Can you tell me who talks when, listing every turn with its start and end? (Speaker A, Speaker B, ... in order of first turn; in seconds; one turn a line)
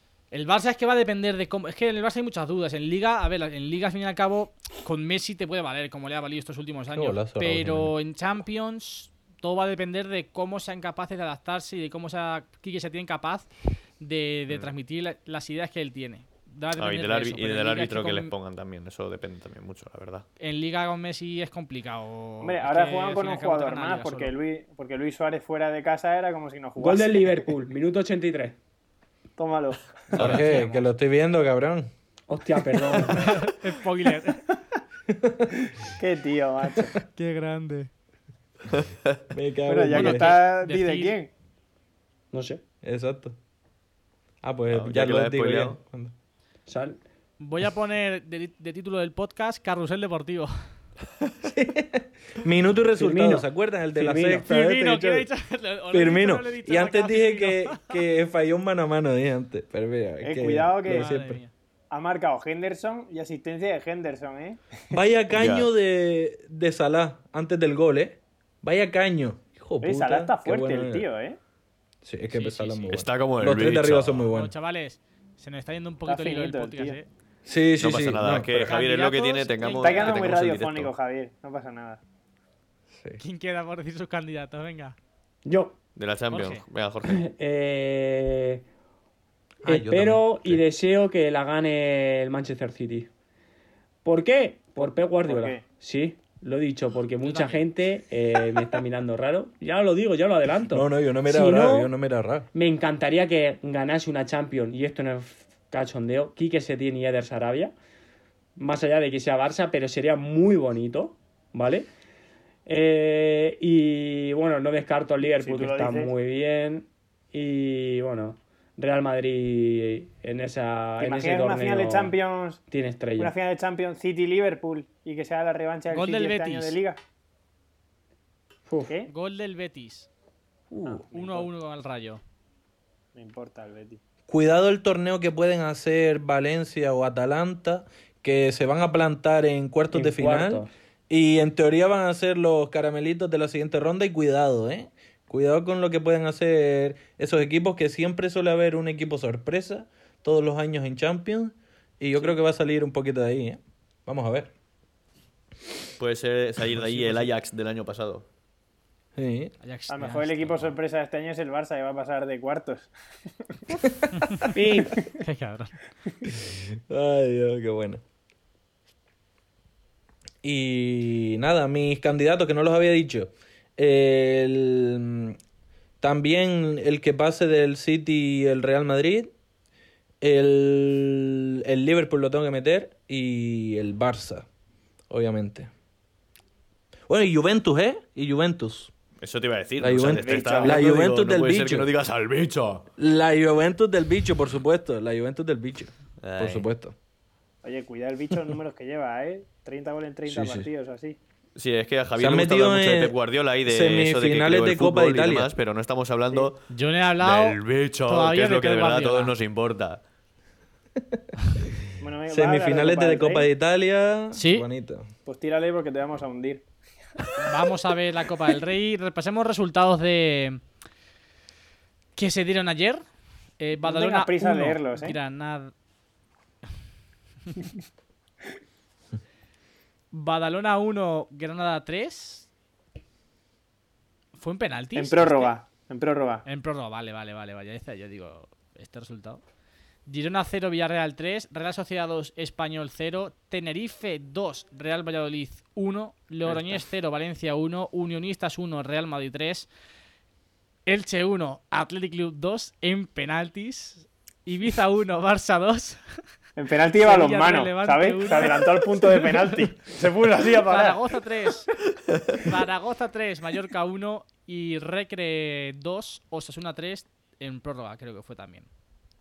Speaker A: 0.3-13.5
Speaker B: 6.9-7.9
Speaker A: 14.0-18.3
Speaker C: 16.8-20.2
Speaker A: 20.4-24.4
Speaker D: 22.4-27.4
Speaker E: 26.8-28.6
Speaker D: 29.4-30.0
Speaker B: 30.1-31.9
Speaker C: 30.1-30.5
Speaker A: 30.2-30.9
Speaker E: 32.3-33.3
Speaker A: 33.1-34.4
Speaker B: 35.1-35.5
Speaker D: 35.8-37.0
Speaker A: 37.1-37.9
Speaker C: 38.7-39.2
Speaker B: 39.3-40.3
Speaker D: 39.7-41.3
Speaker A: 39.9-41.2
Speaker E: 42.3-42.6
Speaker B: 42.8-43.4
Speaker B: 44.4-46.1
Speaker C: 44.7-45.8
Speaker E: 46.7-47.0
Speaker A: 47.4-50.5
Speaker B: 51.4-55.2
Speaker E: 53.0-54.6
Speaker A: 54.5-58.0
Speaker B: 55.9-61.4
Speaker D: 60.2-61.1
Speaker A: 60.9-61.5
Speaker D: 61.9-65.0
Speaker B: 64.9-71.1
Speaker C: 65.3-65.7
Speaker D: 69.8-71.4
Speaker B: 72.0-74.5
Speaker A: 72.3-73.0
Speaker C: 72.9-74.3
Speaker A: 74.3-77.1
Speaker D: 76.1-77.0
Speaker B: 77.5-78.7
Speaker C: 77.8-80.9
Speaker A: 78.6-80.2
Speaker D: 79.8-82.0
Speaker B: 82.9-83.2
Speaker A: 83.2-85.0
Speaker E: 85.5-85.8
Speaker C: 86.0-87.2
Speaker A: 86.3-86.6
Speaker E: 87.0-88.6
Speaker B: 89.6-90.6
Speaker E: 89.7-93.1
Speaker E: 94.0-101.9
Speaker D: 95.3-95.6
Speaker A: 97.2-97.6
Speaker B: 100.7-102.5
Speaker E: 102.5-107.7
Speaker E: 108.6-111.9
Speaker E: 112.7-122.2
Speaker D: 115.4-116.1
Speaker D: 121.0-122.6
Speaker E: 122.7-123.3
Speaker D: 123.2-127.0
Speaker A: 125.9-126.8
Speaker A: 129.1-130.1
Speaker E: 130.7-131.1
Speaker D: 130.8-131.5
Speaker A: 131.1-132.2
Speaker D: 133.2-134.0
Speaker B: 134.3-154.5
Speaker E: 139.9-140.7
Speaker C: 156.0-158.3
Speaker A: 156.9-157.3
Speaker B: 159.2-159.5
Speaker A: 159.6-160.7
Speaker D: 159.9-162.9
Speaker B: 163.8-164.2
Speaker E: 164.5-165.0
Speaker A: 165.1-165.8
Speaker B: 166.3-168.0
Speaker B: 170.4-175.4
Speaker B: 176.0-179.3
Speaker B: 180.2-184.5
Speaker B: 185.1-185.7
Speaker B: 187.1-188.9
Speaker C: 189.2-192.9
Speaker B: 189.8-191.9
Speaker D: 190.1-190.9
Speaker B: 193.0-196.9
Speaker C: 196.2-196.7
Speaker D: 197.6-201.2
Speaker B: 200.3-200.7
Speaker C: 201.6-206.6
Speaker B: 202.2-205.5
Speaker A: 206.7-209.3
Speaker C: 207.2-210.0
Speaker B: 211.0-211.2
Speaker D: 212.0-213.5
Speaker B: 212.3-215.1
Speaker A: 214.3-214.7
Speaker D: 215.3-216.7
Speaker A: 217.4-220.6
Speaker A: 222.2-223.0
Speaker A: 223.6-225.7
Speaker D: 223.8-225.2
Speaker A: 230.1-232.5
Speaker A: 234.4-235.5
Speaker D: 234.9-236.4
Speaker A: 236.4-239.4
Speaker A: 240.1-249.7
Speaker A: 250.9-256.0
Speaker D: 256.6-261.0
Speaker A: 257.0-259.6
Speaker A: 260.6-261.7
Speaker C: 262.1-262.4
Speaker A: 262.4-268.7